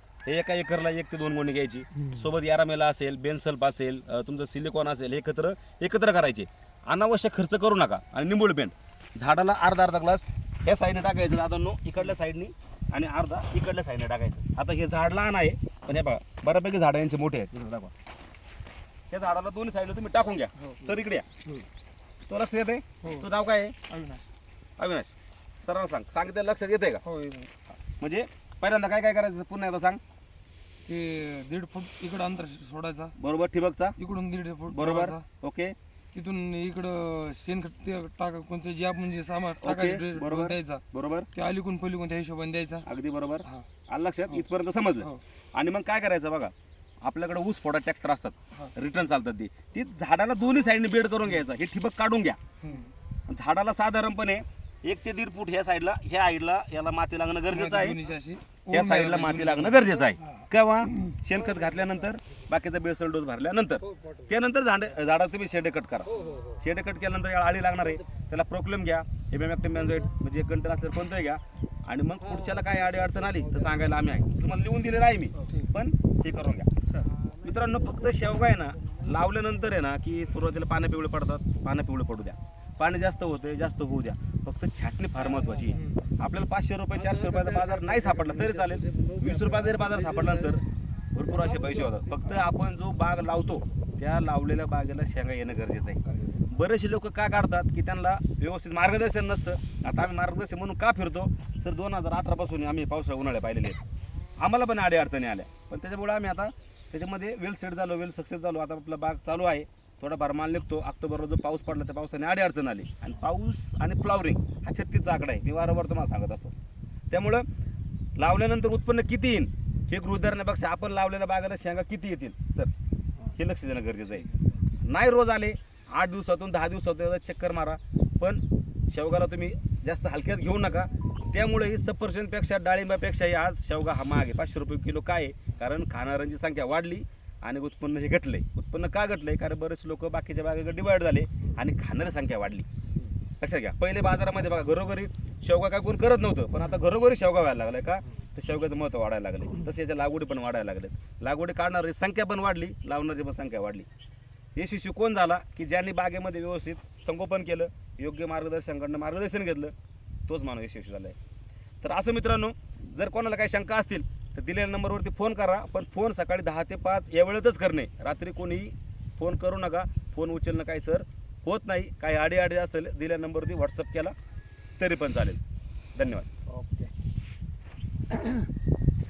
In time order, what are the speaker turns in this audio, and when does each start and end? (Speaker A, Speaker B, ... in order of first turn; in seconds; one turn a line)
Speaker A: 0.3-17.9
Speaker A: 19.1-21.3
Speaker A: 22.3-23.8
Speaker B: 23.0-23.3
Speaker B: 23.9-24.2
Speaker A: 24.8-27.0
Speaker B: 27.0-27.5
Speaker A: 28.0-30.0
Speaker B: 30.9-33.1
Speaker A: 33.2-34.0
Speaker B: 34.0-35.2
Speaker A: 34.7-35.8
Speaker B: 36.1-42.9
Speaker A: 39.6-41.3
Speaker A: 42.8-52.4
Speaker B: 52.6-52.9
Speaker A: 53.3-58.0
Speaker B: 57.5-60.4
Speaker A: 58.7-76.7
Speaker C: 63.9-64.3
Speaker C: 66.1-66.6
Speaker C: 72.3-73.9
Speaker C: 77.0-77.6
Speaker A: 77.4-90.6
Speaker C: 85.3-85.6
Speaker C: 87.0-90.6
Speaker A: 91.1-103.8
Speaker C: 91.3-92.5
Speaker C: 96.1-96.4
Speaker A: 104.4-116.5
Speaker A: 117.1-117.5
Speaker A: 118.2-122.7
Speaker A: 123.3-142.7
Speaker A: 143.4-153.9
Speaker A: 154.6-159.7
Speaker A: 160.3-161.2
Speaker A: 161.8-174.1
Speaker A: 174.8-175.4
Speaker A: 175.9-176.3
Speaker C: 176.5-176.9